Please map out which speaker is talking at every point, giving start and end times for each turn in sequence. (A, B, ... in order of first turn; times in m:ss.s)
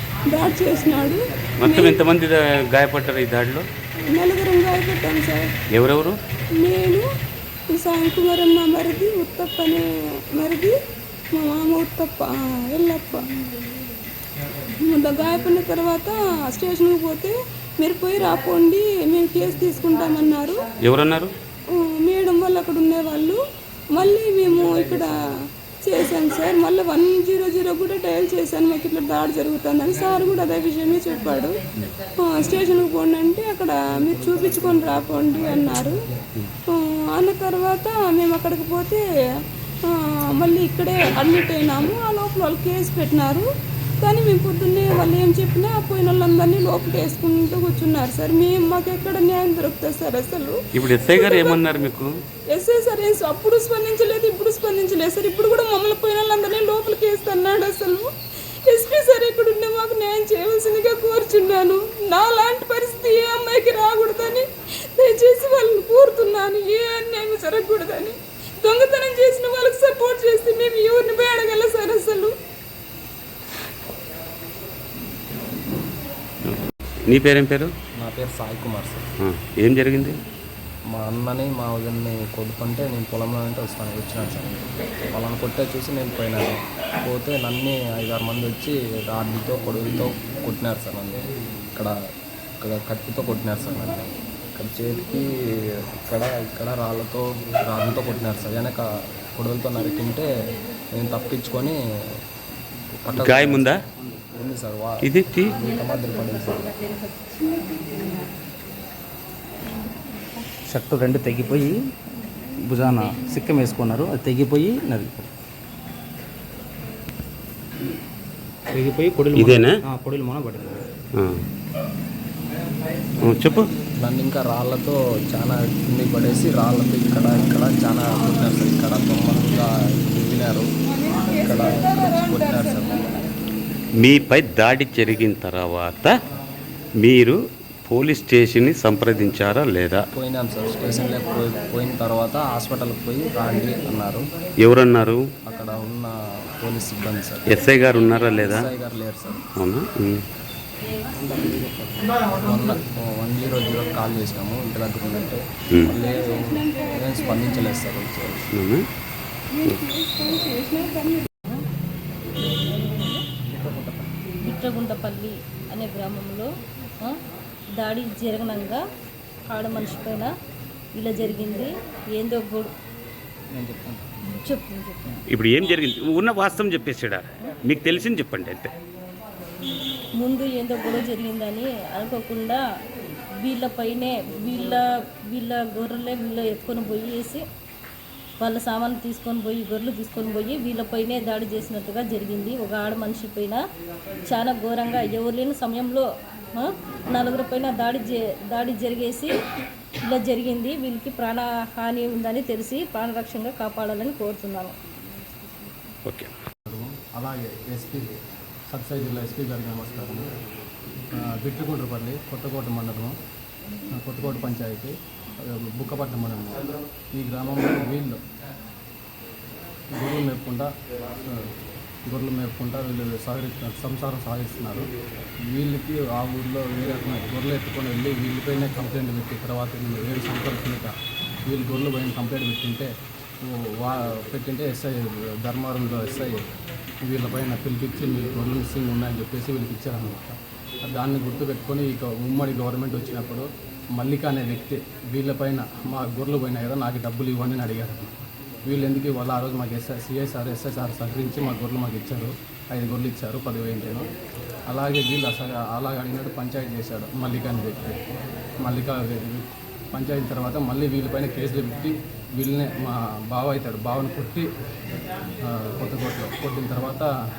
0:00.3-0:02.0 A
0:01.6-0:03.7 B
0:04.2-0:05.4 A
0:05.8-0:06.2 B
0:06.6-0:07.0 A
0:07.8-0:09.8 A
0:10.4-0:10.7 A
0:11.4-0:13.2 A
0:14.9-0:20.6 A
0:20.8-0:21.3 B
0:22.1-0:23.4 A
0:24.0-0:25.2 A
0:25.9-0:31.5 A
0:32.2-0:35.9 A
0:37.3-0:39.0 A
0:40.4-0:43.4 A
0:44.0-0:50.5 A
0:50.8-0:52.1 B
0:51.0-0:51.6 A
0:52.6-0:58.1 A
0:58.7-1:04.4 A
1:05.0-1:12.3 A
1:17.1-1:17.7 B
1:18.0-1:19.0 C
1:19.2-1:20.2 B
1:20.9-1:31.9 C
1:32.6-1:38.8 C
1:39.4-1:40.3 C
1:41.0-1:41.8 C
1:43.0-1:43.8 C
1:43.1-1:43.8 B
1:44.3-1:46.7 C
1:45.0-1:45.5 B
1:45.6-1:47.4 D
1:50.7-1:51.7 E
1:52.7-1:54.8 E
1:58.7-1:59.7 E
1:59.3-1:59.8 B
2:00.3-2:00.8 E
2:01.2-2:01.4 B
2:03.2-2:03.7 B
2:04.0-2:10.7 C
2:10.9-2:13.2 A
2:11.4-2:13.1 C
2:14.0-2:16.1 B
2:17.0-2:17.4 B
2:17.9-2:20.0 B
2:20.2-2:24.3 C
2:24.6-2:25.2 B
2:25.5-2:27.6 C
2:27.5-2:28.7 B
2:28.3-2:29.4 C
2:29.6-2:30.2 B
2:31.2-2:38.5 C
2:36.0-2:37.8 A
2:38.5-2:38.8 B
2:39.6-2:41.2 A
2:42.6-2:43.2 D
2:44.4-2:46.5 D
2:47.8-2:48.8 D
2:49.5-2:50.3 D
2:51.0-2:52.7 D
2:53.6-2:54.0 E
2:54.3-2:55.2 D
2:55.3-2:58.7 B
3:00.2-3:02.6 D
3:03.4-3:07.4 D
3:08.4-3:13.6 D
3:14.3-3:19.3 D
3:20.0-3:24.8 D
3:26.0-3:26.3 B
3:26.7-3:28.1 F
3:28.7-3:30.3 F
3:31.1-3:33.2 F
3:33.9-3:38.2 F
3:39.9-3:41.4 F
3:42.1-3:44.9 F
3:45.5-3:52.9 F
3:53.4-3:56.4 F
3:57.0-4:08.1 F
4:08.7-4:14.1 F
4:14.7-4:18.0 F
4:18.6-4:24.5 F
4:25.4-4:27.1 F